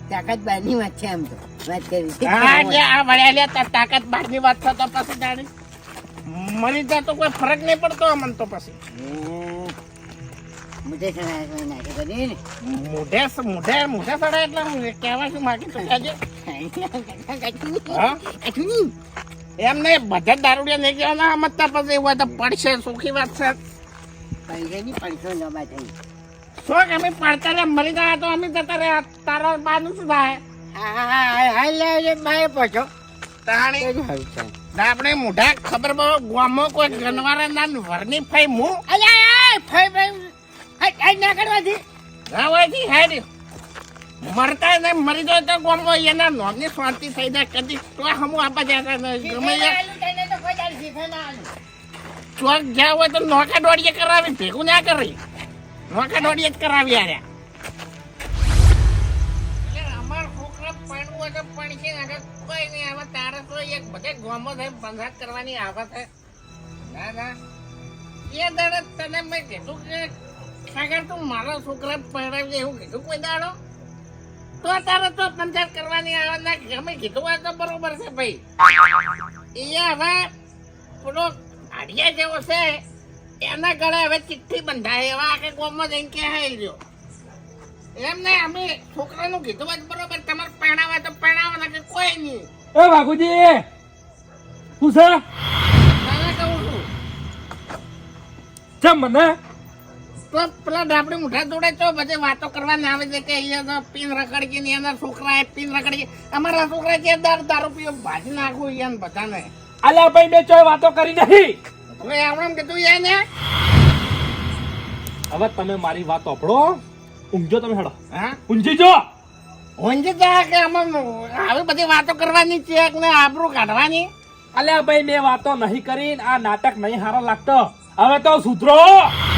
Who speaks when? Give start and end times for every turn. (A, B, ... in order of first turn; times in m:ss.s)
0:00.1-0:02.8 A
0:02.3-0:05.5 B
0:06.3-0:08.8 B
0:08.9-0:09.7 A
0:10.8-0:12.4 A
0:12.6-0:16.2 B
0:16.4-0:18.9 A
0:17.9-0:18.2 B
0:19.6-0:23.6 B
0:24.5-0:25.9 A
0:26.6-0:30.4 B
0:30.7-0:32.9 A
0:33.4-0:33.9 B
0:33.8-0:34.5 A
0:34.7-0:38.8 B
0:38.9-0:41.8 A
0:42.3-0:43.2 B
0:44.2-0:49.8 B
0:49.2-0:51.5 A
0:52.4-0:55.2 B
0:55.9-0:57.2 B
0:59.6-1:06.1 B
1:06.9-1:07.4 B
1:08.3-1:10.1 B
1:10.7-1:13.5 B
1:14.6-1:18.4 B
1:19.6-1:20.3 B
1:21.0-1:22.8 B
1:23.4-1:26.8 B
1:28.0-1:32.5 B
1:32.7-1:33.6 C
1:34.8-1:35.2 C
1:36.0-1:36.9 B
1:38.8-1:39.3 C
1:40.3-1:49.5 B
1:49.8-1:51.6 C
1:51.9-1:53.2 B
1:55.3-1:56.8 C
1:57.3-1:57.9 C
1:58.1-1:58.4 B
1:58.5-1:59.0 C
1:59.8-2:04.1 B
2:04.5-2:09.1 C